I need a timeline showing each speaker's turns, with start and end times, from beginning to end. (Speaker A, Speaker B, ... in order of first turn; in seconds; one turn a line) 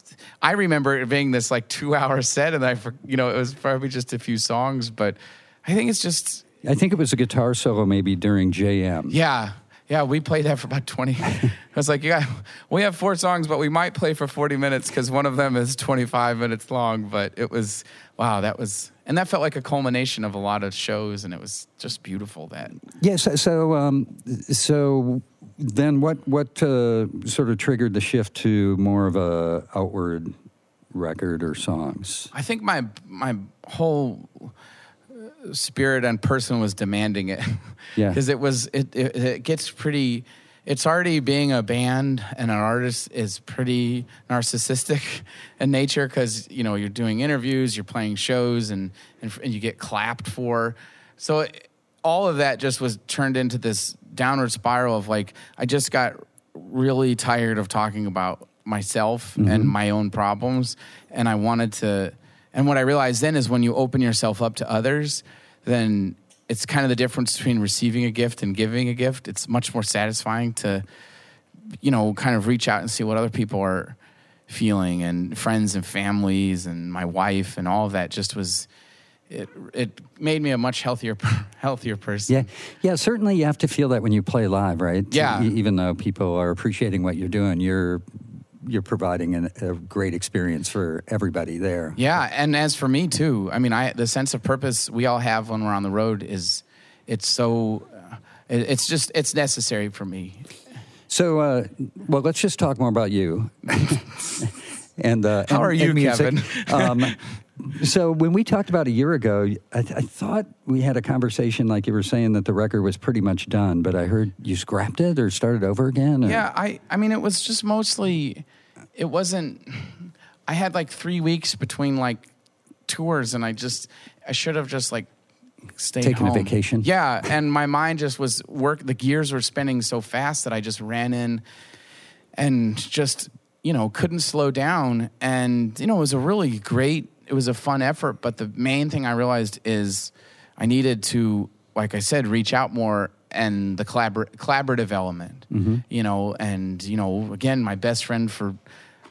Speaker A: 0.4-6.5
Speaker B: 6.6-9.2
Speaker A: 9.1-22.7
Speaker B: 23.0-30.3
Speaker B: 30.9-32.3
Speaker A: 32.3-34.5
Speaker A: 35.1-70.8
Speaker B: 59.4-59.7
Speaker A: 71.8-78.7
Speaker A: 79.3-82.5
Speaker B: 82.3-88.0
Speaker A: 85.1-85.5
Speaker B: 88.6-92.0
Speaker A: 92.0-100.5
Speaker B: 101.1-116.4
Speaker A: 105.5-107.2
Speaker A: 116.2-122.3
Speaker A: 122.9-125.1
Speaker A: 125.8-131.4
Speaker B: 126.0-126.9
Speaker A: 132.3-148.6
Speaker B: 145.5-145.8